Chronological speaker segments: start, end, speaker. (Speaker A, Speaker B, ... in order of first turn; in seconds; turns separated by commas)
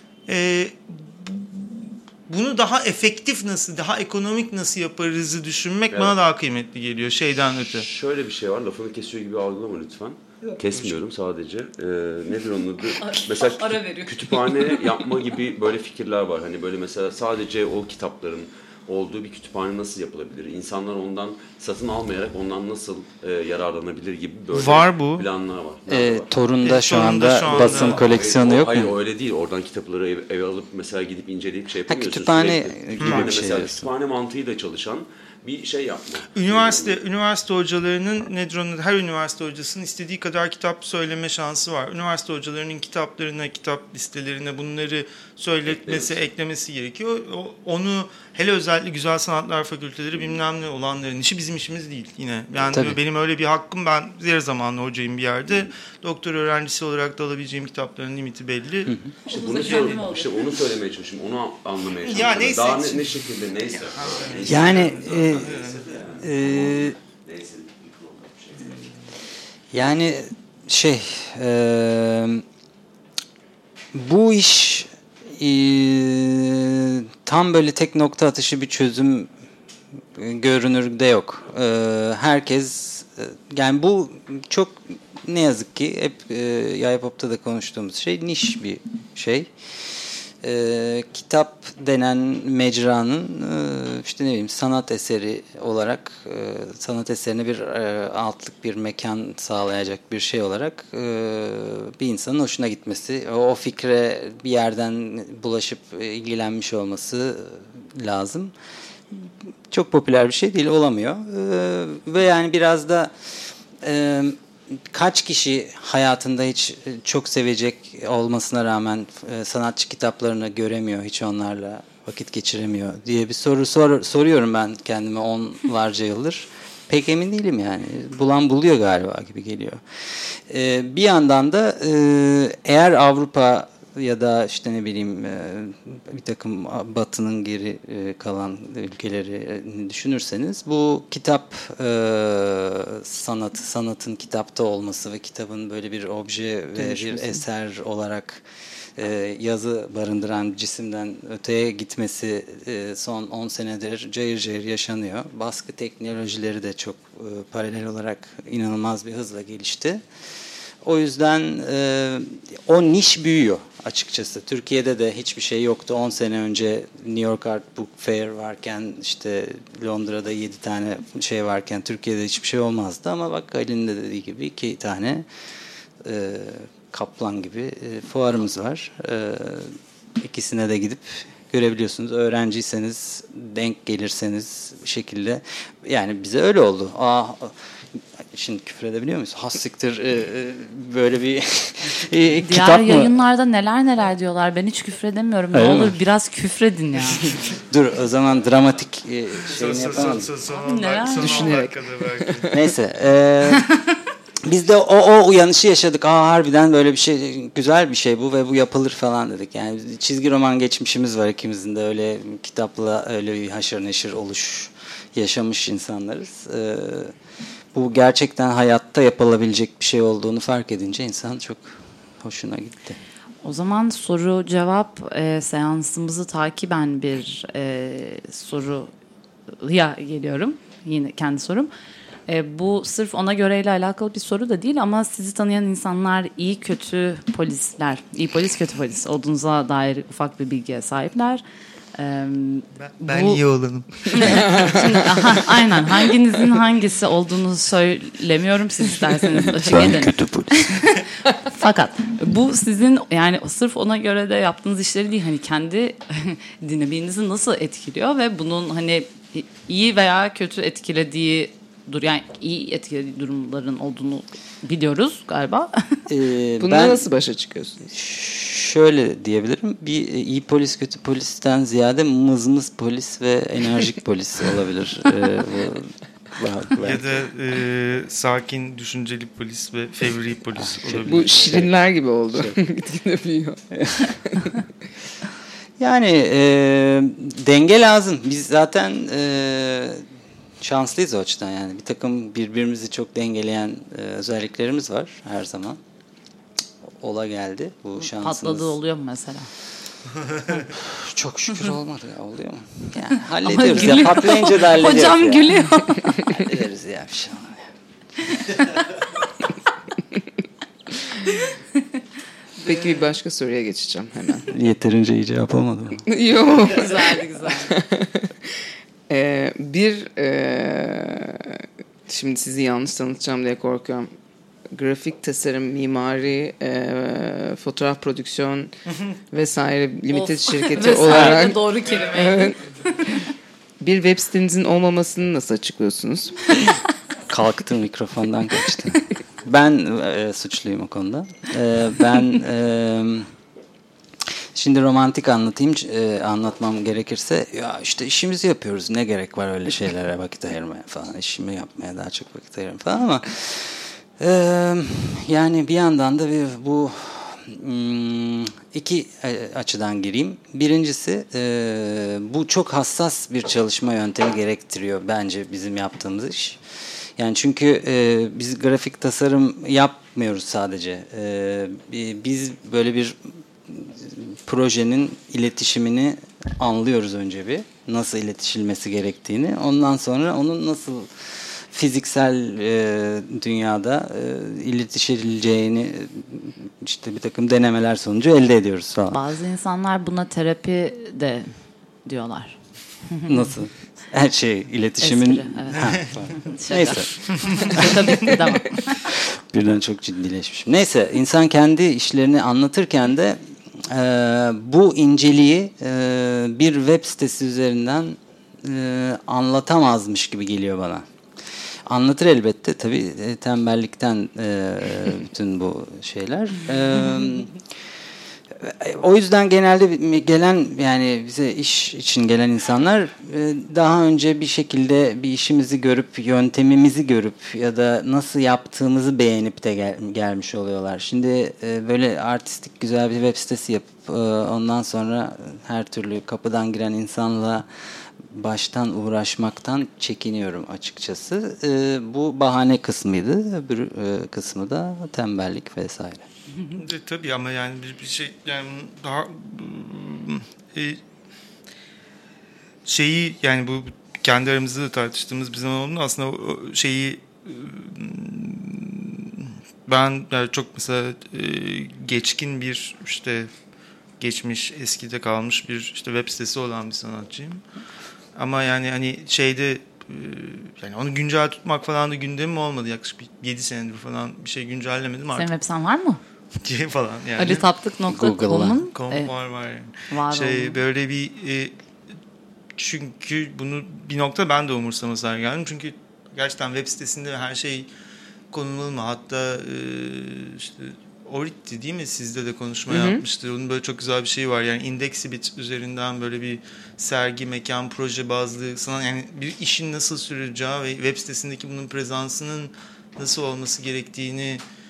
Speaker A: 0.3-7.9, Speaker B: 5.9-6.2, Speaker B: 7.7-26.3, Speaker A: 10.5-10.9, Speaker C: 13.0-14.8, Speaker A: 24.5-25.3, Speaker D: 25.9-29.0, Speaker A: 26.6-28.1, Speaker B: 27.4-37.0, Speaker D: 31.9-33.9, Speaker A: 33.0-33.3, Speaker A: 36.3-60.1, Speaker B: 45.6-46.2, Speaker B: 52.6-52.8, Speaker D: 52.7-53.0, Speaker B: 59.3-68.8, Speaker C: 59.3-60.3, Speaker A: 62.0-66.0, Speaker D: 64.4-65.6, Speaker D: 66.2-66.9, Speaker D: 69.7-72.4, Speaker D: 73.9-79.3, Speaker D: 80.1-108.5, Speaker D: 109.1-113.1, Speaker D: 113.8-148.4, Speaker E: 146.8-147.4, Speaker D: 148.9-160.0, Speaker D: 160.8-175.2, Speaker D: 176.0-187.6, Speaker D: 188.2-193.1, Speaker C: 192.4-197.3, Speaker D: 195.5-196.0, Speaker D: 197.7-200.3, Speaker A: 199.4-202.5, Speaker C: 200.5-201.6, Speaker E: 201.1-202.6, Speaker D: 202.5-203.7, Speaker D: 204.4-217.1, Speaker D: 217.7-223.0, Speaker C: 223.4-228.9, Speaker C: 229.5-231.7, Speaker C: 232.3-241.4, Speaker C: 241.9-243.4, Speaker A: 242.8-244.9, Speaker C: 244.1-266.1, Speaker E: 244.3-244.8, Speaker D: 249.4-250.7, Speaker D: 266.1-267.0, Speaker E: 266.6-267.9, Speaker D: 267.9-277.1, Speaker A: 276.8-281.7, Speaker D: 280.6-281.7, Speaker E: 281.1-284.6, Speaker D: 282.3-282.6, Speaker D: 283.7-284.1, Speaker D: 285.8-290.0, Speaker D: 290.6-295.8, Speaker D: 297.0-298.8, Speaker C: 298.0-299.5, Speaker D: 300.5-305.6, Speaker C: 303.4-306.4, Speaker D: 306.3-307.7, Speaker C: 308.4-308.8, Speaker C: 312.6-313.1, Speaker E: 312.6-314.5, Speaker D: 314.5-316.1, Speaker E: 316.1-324.1, Speaker C: 316.6-317.8, Speaker E: 324.7-328.7, Speaker E: 329.3-332.6, Speaker C: 330.1-333.3, Speaker D: 331.0-331.5, Speaker A: 332.0-332.4, Speaker E: 333.8-336.7, Speaker D: 337.3-343.3, Speaker D: 344.5-366.6, Speaker D: 367.2-389.2, Speaker C: 389.1-391.5, Speaker C: 392.0-393.5, Speaker D: 393.3-397.9, Speaker C: 395.0-399.0, Speaker A: 397.3-397.7, Speaker D: 399.0-411.0, Speaker D: 411.9-417.6, Speaker D: 418.5-437.6, Speaker D: 438.2-446.2, Speaker A: 446.8-451.0, Speaker A: 452.8-463.5, Speaker A: 464.2-467.6, Speaker A: 468.4-475.5, Speaker C: 475.3-476.2, Speaker A: 476.6-477.6, Speaker C: 477.4-479.3, Speaker D: 478.1-478.8, Speaker A: 478.9-481.7, Speaker C: 480.1-480.8, Speaker A: 482.8-487.9, Speaker A: 488.5-504.6, Speaker E: 492.9-493.2